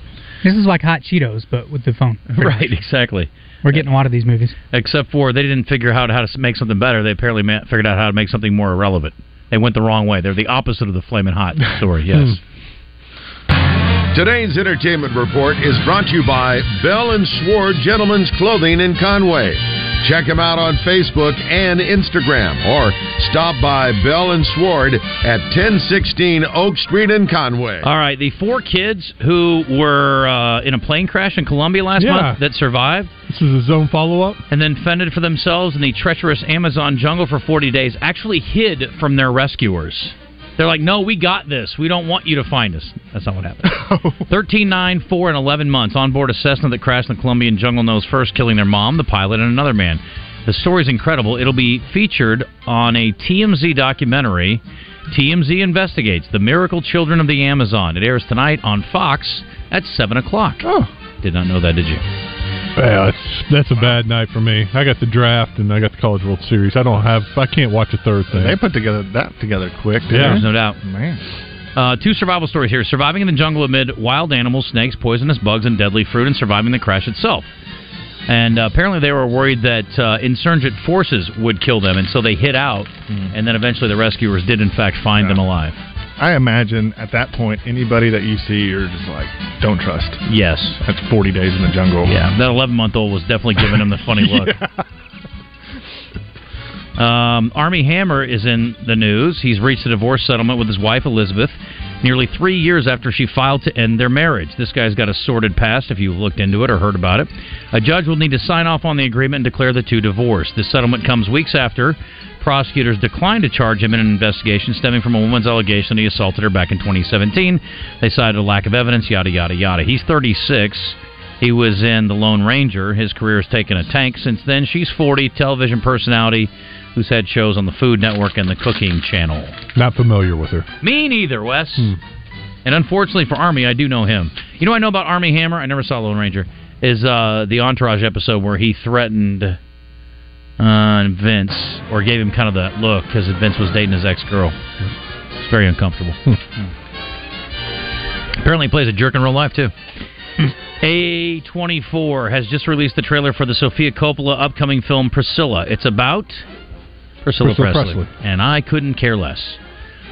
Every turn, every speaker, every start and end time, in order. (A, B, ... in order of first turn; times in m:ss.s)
0:00.4-0:02.5 A
0:02.4-0:03.8 B
0:03.6-0:04.6 A
0:04.7-0:12.4 B
0:14.1-0:27.9 C
0:27.8-0:33.1 B
0:32.0-0:32.4 D
0:33.3-0:34.4 D
0:34.5-0:43.8 B
0:43.6-0:44.2 E
0:44.3-1:00.6 B
1:00.6-1:00.9 E
1:01.2-1:02.0 B
1:02.8-1:08.6 D
1:08.3-1:11.2 E
1:10.1-1:10.8 B
1:10.1-1:10.4 D
1:11.8-1:17.5 B
1:18.3-1:25.8 B
1:26.2-1:30.2 E
1:30.3-1:30.8 B
1:30.8-1:32.3 E
1:32.1-1:34.6 B
1:34.2-1:34.8 E
1:37.0-2:09.6 B
2:09.8-2:10.7 D
2:10.8-2:11.9 B
2:12.6-2:19.6 B
2:20.6-2:24.6 B
2:25.4-2:26.2 B
2:28.4-2:29.7 B
2:30.8-2:36.5 B
2:37.2-2:39.6 B
2:37.4-2:38.1 D